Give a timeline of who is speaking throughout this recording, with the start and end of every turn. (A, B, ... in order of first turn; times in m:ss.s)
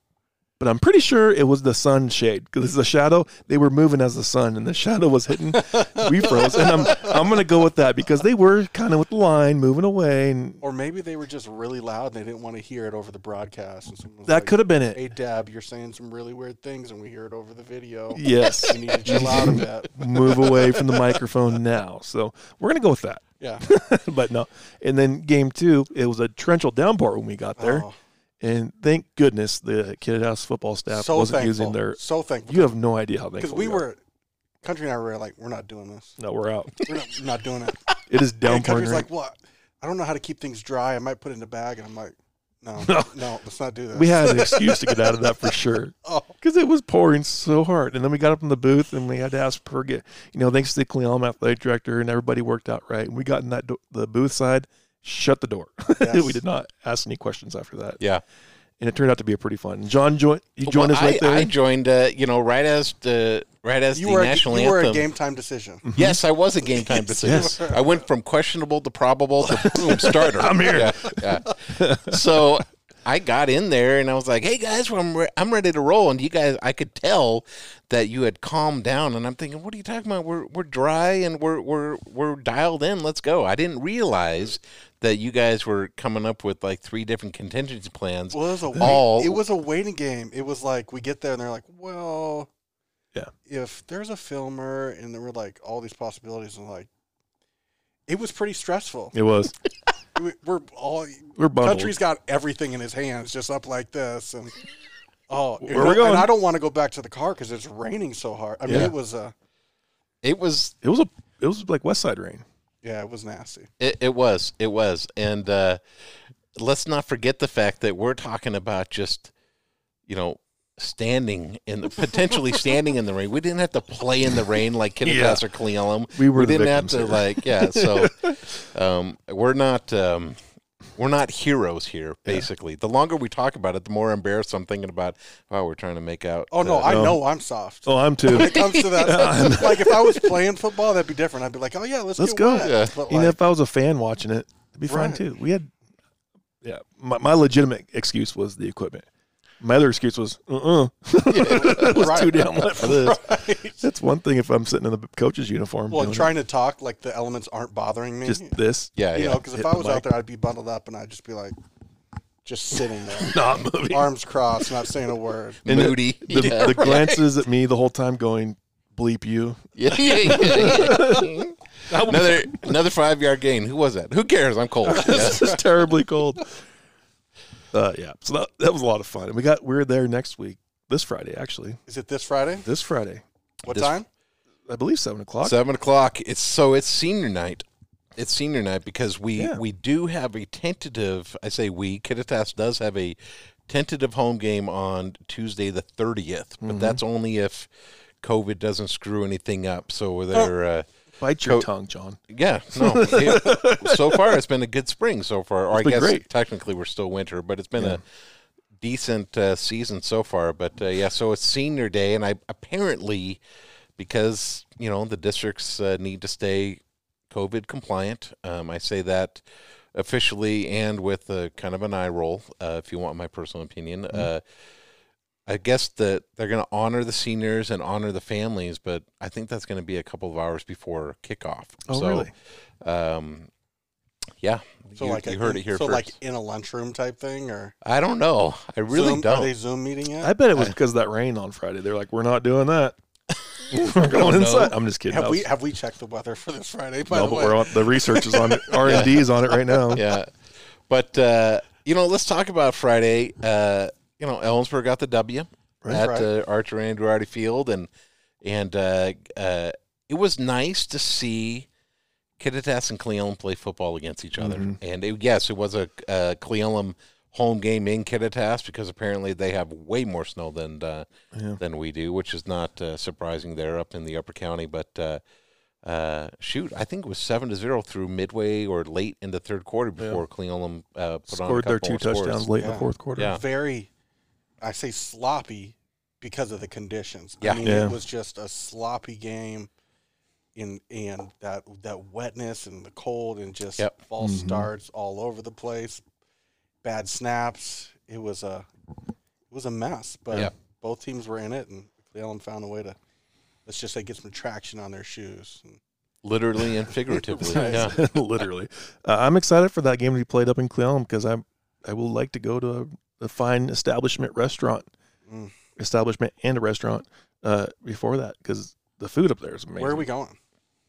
0:00.6-0:10.6 A
0:05.7-0:07.3 B
0:10.6-0:21.2 B
0:14.3-0:15.1 A
0:18.1-0:27.8 A
0:27.6-0:27.9 B
0:28.4-0:33.8 A
0:30.9-0:32.7 B
0:33.4-0:34.0 B
0:34.6-0:36.2 B
0:36.2-0:36.8 A
0:36.8-0:37.9 B
0:38.1-0:39.1 A
0:38.4-0:46.3 B
0:42.8-0:43.1 A
0:43.9-0:58.0 A
0:56.0-0:56.4 B
0:58.8-1:01.5 A
1:00.6-1:05.0 C
1:03.9-1:05.9 B
1:05.8-1:06.2 A
1:05.9-1:29.4 C
1:06.6-1:08.0 B
1:07.2-1:07.5 A
1:09.5-1:12.2 A
1:09.6-1:10.8 B
1:28.3-1:32.5 B
1:33.5-1:36.9 B
1:38.1-1:39.1 B
1:39.1-1:39.5 A
1:40.1-1:44.6 B
1:41.4-1:42.0 A
1:45.3-1:49.3 B
1:45.6-1:46.3 A
1:48.7-1:48.9 A
1:50.2-1:50.8 C
1:50.8-1:52.4 A
1:52.8-1:53.7 B
1:53.8-1:55.8 C
1:56.5-1:59.3 C
2:00.1-2:10.4 C
2:05.0-2:05.4 A
2:06.1-2:08.6 A
2:11.0-2:17.0 C
2:16.5-2:23.4 B
2:16.6-2:17.2 A
2:17.8-2:20.0 A
2:18.3-2:19.6 C
2:22.2-2:25.7 A
2:22.6-2:23.0 C
2:24.9-2:25.2 B
2:26.6-2:29.0 A
2:29.6-2:36.3 A
2:31.3-2:32.0 C
2:31.4-2:33.8 B
2:35.9-2:38.6 B
2:38.2-2:40.1 A
2:38.9-2:39.4 C
2:39.1-2:41.5 B
2:42.4-2:45.6 B
2:43.2-2:44.1 A
2:45.6-2:47.2 C
2:45.7-2:51.3 A
2:46.3-2:47.0 B
2:49.8-2:55.5 C
2:51.9-2:52.7 A
2:54.8-2:56.5 A
2:55.0-2:55.6 B
2:57.7-3:01.8 A
3:01.9-3:02.6 B
3:02.6-3:03.2 A
3:03.7-3:04.0 B
3:04.7-3:05.6 A
3:05.4-3:17.7 C
3:16.6-3:17.0 A
3:18.2-3:20.9 C
3:21.2-3:22.2 A
3:21.4-3:21.7 C
3:22.3-3:28.0 C
3:22.7-3:24.4 A
3:25.7-3:26.2 A
3:28.8-3:33.4 C
3:34.0-3:39.4 C
3:39.9-3:44.4 C
3:45.4-3:53.5 C
3:51.9-3:52.3 A
3:54.4-3:56.1 C
3:55.0-3:57.7 B
3:57.8-3:59.5 C
3:58.9-4:00.3 B
4:00.2-4:02.9 A
4:03.6-4:04.8 C
4:03.7-4:05.5 A
4:05.1-4:09.1 B
4:07.1-4:10.0 A
4:08.8-4:09.2 C
4:09.9-4:10.3 C
4:10.9-4:17.9 C
4:15.9-4:16.3 B
4:18.4-4:21.7 C
4:22.4-4:31.1 C
4:24.4-4:24.8 A
4:31.3-4:31.6 A
4:31.6-4:35.2 C
4:35.8-4:42.5 C
4:41.3-4:43.3 A
4:42.6-4:43.9 B
4:43.2-4:43.4 C
4:44.6-4:49.7 B
4:47.4-4:47.7 C
4:47.6-4:48.0 A
4:50.5-4:56.0 B
4:54.2-4:54.7 A
4:56.8-4:58.7 B
4:59.5-5:03.0 B
5:03.6-5:05.8 B
5:06.2-5:08.0 C
5:07.2-5:07.9 B
5:07.4-5:14.9 A
5:15.3-5:15.5 B
5:15.8-5:20.1 A
5:19.8-5:20.4 B